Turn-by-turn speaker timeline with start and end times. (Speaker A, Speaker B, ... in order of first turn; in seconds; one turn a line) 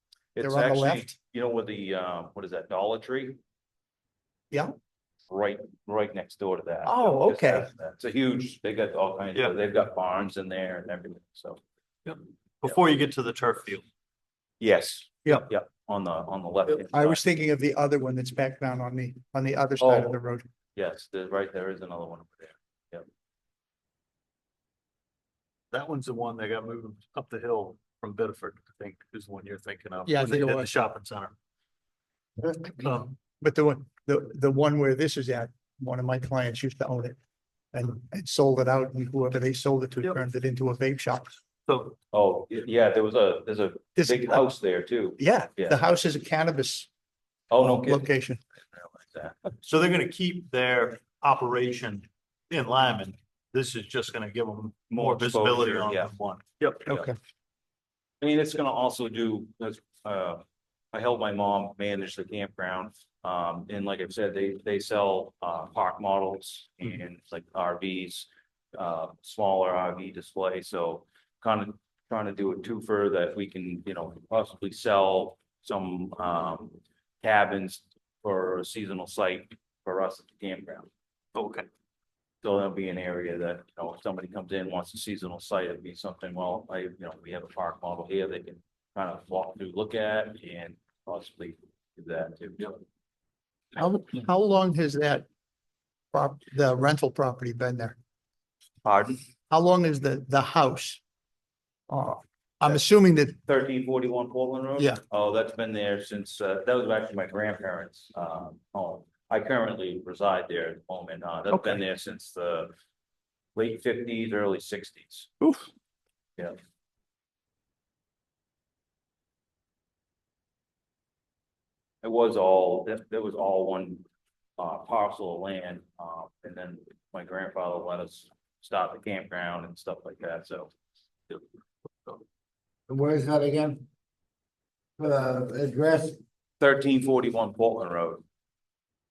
Speaker A: 0.3-3.4
Speaker B: 0.4-1.1
Speaker A: 5.3-11.6
Speaker B: 6.8-7.7
Speaker C: 12.1-13.8
Speaker A: 14.6-17.2
Speaker B: 16.7-20.5
Speaker A: 19.8-20.2
Speaker A: 20.8-23.1
Speaker C: 25.7-31.3
Speaker B: 30.1-30.7
Speaker D: 32.4-32.7
Speaker C: 32.8-33.2
Speaker B: 33.4-37.2
Speaker B: 37.7-41.3
Speaker C: 41.7-42.0
Speaker A: 42.1-45.8
Speaker B: 44.0-44.5
Speaker B: 45.2-46.9
Speaker A: 47.5-48.1
Speaker B: 47.6-48.4
Speaker A: 48.7-49.5
Speaker C: 49.6-56.8
Speaker A: 54.9-56.1
Speaker A: 56.9-57.1
Speaker B: 56.9-57.1
Speaker A: 58.2-80.9
Speaker C: 81.3-81.7
Speaker A: 82.4-92.8
Speaker B: 93.8-95.3
Speaker B: 96.1-98.0
Speaker A: 98.8-99.2
Speaker B: 99.5-101.0
Speaker B: 101.9-103.4
Speaker A: 103.5-112.7
Speaker B: 111.5-111.8
Speaker A: 113.5-115.3
Speaker A: 122.0-124.0
Speaker A: 124.6-130.7
Speaker D: 132.9-133.8
Speaker D: 135.0-136.2
Speaker A: 136.6-138.2